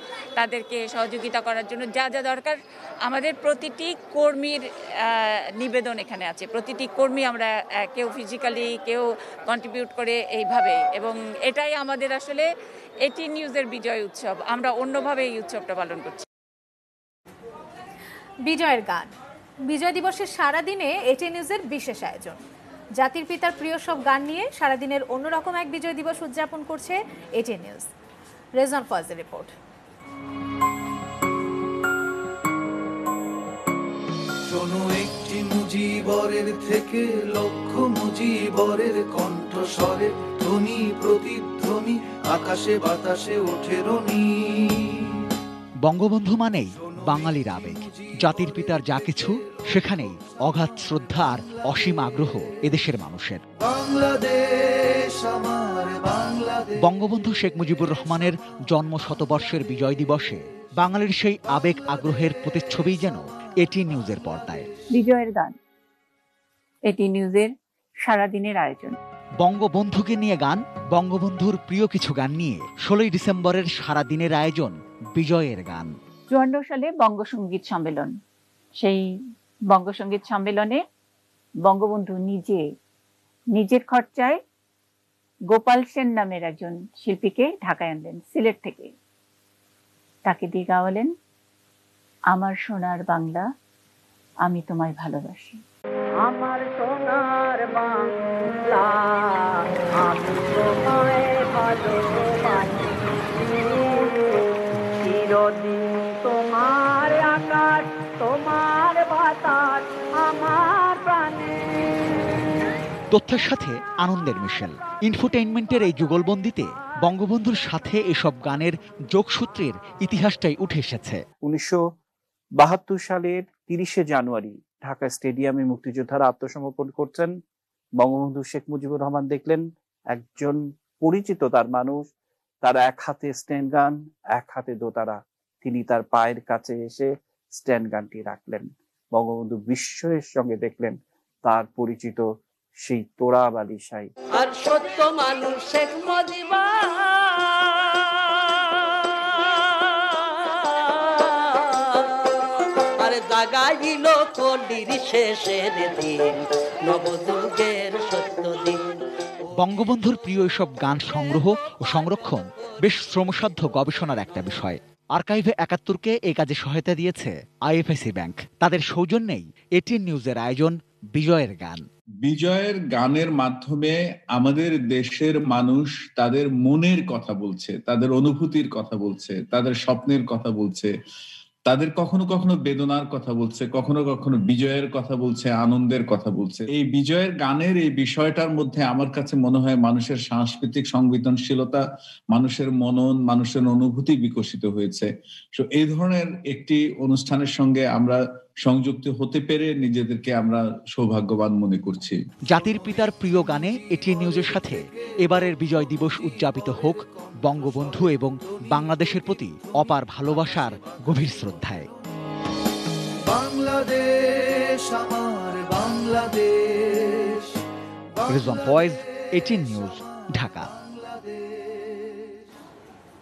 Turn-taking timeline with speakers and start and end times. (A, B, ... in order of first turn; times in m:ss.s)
0:00.4-0:12.5 A
0:13.0-0:16.3 A
0:18.5-0:19.1 B
0:19.7-0:22.4 B
0:23.0-0:27.9 B
0:28.6-0:29.5 B
0:34.5-0:45.2 C
0:45.8-0:53.4 D
0:46.8-0:48.5 C
0:53.6-0:56.8 C
0:56.8-1:04.7 D
1:04.9-1:05.6 E
1:06.9-1:07.5 E
1:08.1-1:09.0 E
1:09.4-1:15.9 D
1:16.3-1:18.1 E
1:19.7-1:20.8 E
1:21.6-1:22.6 E
1:23.6-1:24.4 E
1:25.5-1:28.9 E
1:30.3-1:31.1 E
1:32.3-1:33.5 E
1:34.4-1:35.6 E
1:36.3-1:38.0 F
1:38.7-1:39.2 F
1:40.1-1:42.9 F
1:45.0-1:51.6 F
1:53.1-2:01.2 D
2:01.4-2:01.8 G
2:02.6-2:07.4 G
2:08.0-2:12.1 G
2:12.6-2:22.3 G
2:22.8-2:24.1 G
2:24.4-2:27.1 F
2:33.0-2:38.9 F
2:39.6-2:51.8 D
2:52.2-3:00.9 H
3:01.7-3:22.2 H
3:22.5-3:31.9 D
3:33.2-3:37.6 C
3:38.2-3:40.0 C
3:38.3-3:40.7 D
3:40.7-3:42.3 C